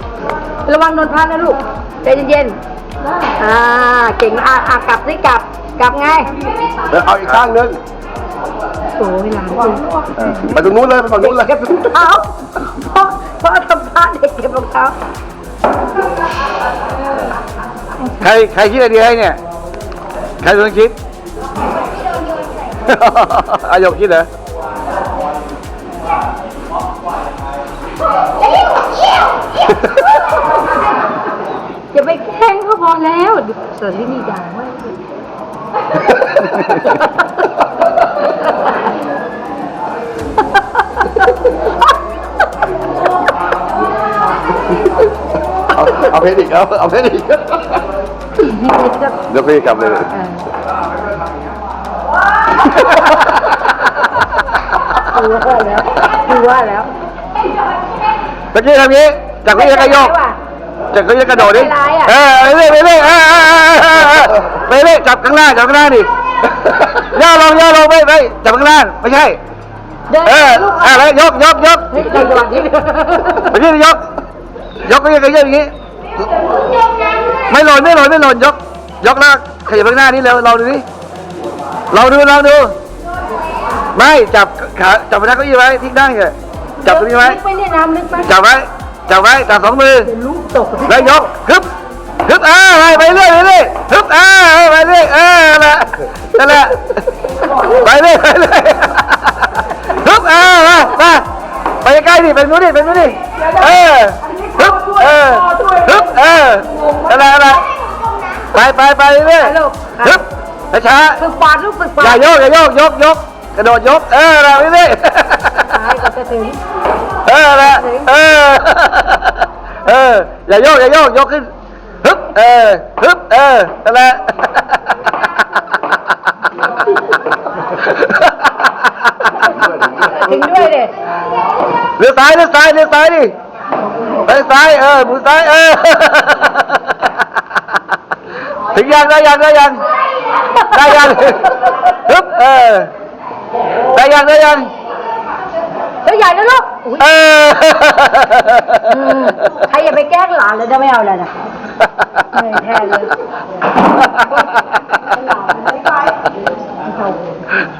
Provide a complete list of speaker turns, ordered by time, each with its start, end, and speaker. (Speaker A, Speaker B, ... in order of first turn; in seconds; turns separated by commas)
Speaker A: 0.7-2.6, Speaker A: 3.3-6.3, Speaker B: 6.9-7.8, Speaker A: 9.0-10.5, Speaker C: 10.2-10.5, Speaker B: 10.4-11.6, Speaker A: 11.2-14.9, Speaker C: 18.1-19.4, Speaker C: 20.4-20.9, Speaker C: 22.8-24.3, Speaker A: 31.9-34.9, Speaker B: 45.8-47.7, Speaker A: 48.4-49.3, Speaker C: 49.3-50.1, Speaker A: 50.1-50.4, Speaker C: 52.8-53.1, Speaker A: 55.0-56.9, Speaker C: 58.5-60.1, Speaker A: 59.5-60.4, Speaker C: 60.9-69.4, Speaker A: 61.3-62.1, Speaker A: 70.1-71.1, Speaker C: 70.2-72.1, Speaker A: 71.9-73.5, Speaker C: 73.3-74.1, Speaker C: 74.8-75.7, Speaker C: 77.5-80.8, Speaker C: 81.9-82.7, Speaker C: 83.9-87.4, Speaker A: 86.8-88.3, Speaker C: 88.2-90.1, Speaker A: 90.0-91.3, Speaker C: 90.8-91.7, Speaker C: 92.2-101.3, Speaker C: 101.8-107.7, Speaker C: 108.5-111.2, Speaker A: 109.4-110.2, Speaker A: 111.2-112.2, Speaker C: 112.0-115.9, Speaker A: 115.6-116.6, Speaker C: 117.2-121.5, Speaker A: 117.6-118.1, Speaker C: 122.0-125.0, Speaker C: 127.8-129.7, Speaker A: 129.8-130.9, Speaker C: 132.0-133.3, Speaker C: 134.2-137.2, Speaker C: 138.7-139.8, Speaker A: 140.4-141.1, Speaker C: 140.6-142.9, Speaker C: 143.8-144.7, Speaker A: 146.0-147.1, Speaker C: 147.0-148.8, Speaker A: 148.8-151.3, Speaker A: 152.3-153.1, Speaker A: 156.8-157.4